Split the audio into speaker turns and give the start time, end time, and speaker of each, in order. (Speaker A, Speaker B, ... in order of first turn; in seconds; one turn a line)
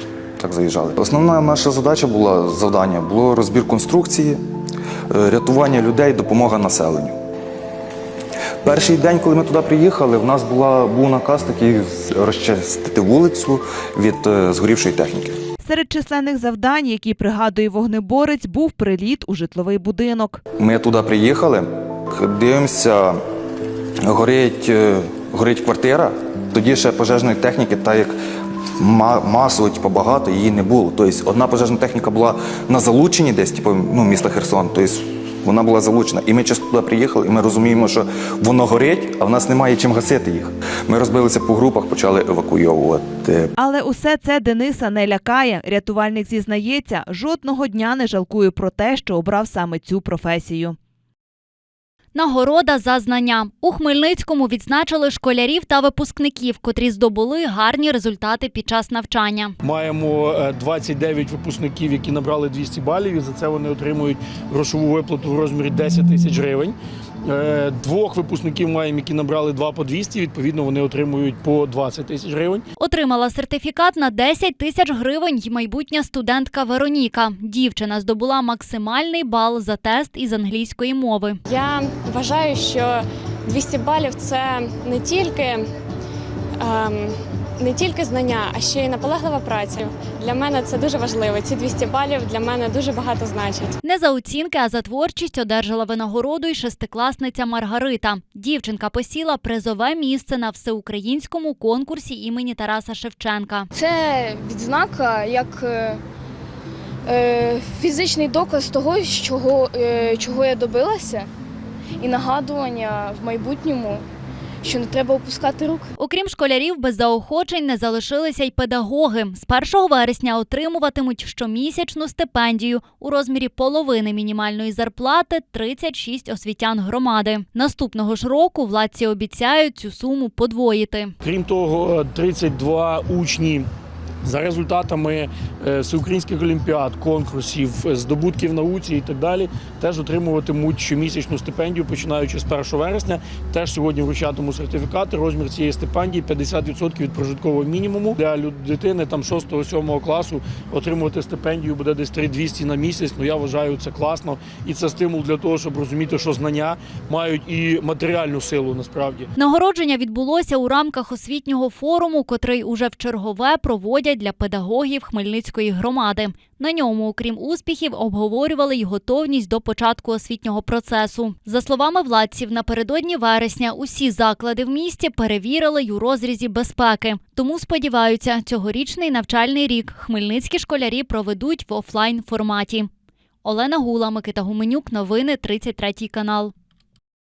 Speaker A: 0.4-4.4
Speaker A: 5.1-7.2
Speaker A: 8.6-15.4
Speaker B: 15.6-20.4
Speaker A: 20.6-23.2
Speaker A: 24.1-28.1
Speaker A: 28.8-43.5
Speaker B: 43.6-50.8
Speaker C: 52.1-59.5
Speaker D: 59.6-72.6
Speaker C: 72.8-81.4
Speaker E: 81.5-85.7
Speaker E: 86.6-93.8
Speaker C: 93.8-103.7
Speaker F: 103.7-106.0
Speaker F: 107.0-111.3
Speaker F: 112.0-114.0
Speaker F: 114.6-115.9
Speaker C: 116.0-131.1
Speaker D: 131.2-133.7
Speaker D: 134.2-159.3
Speaker C: 159.3-182.9
Speaker C: 183.4-186.5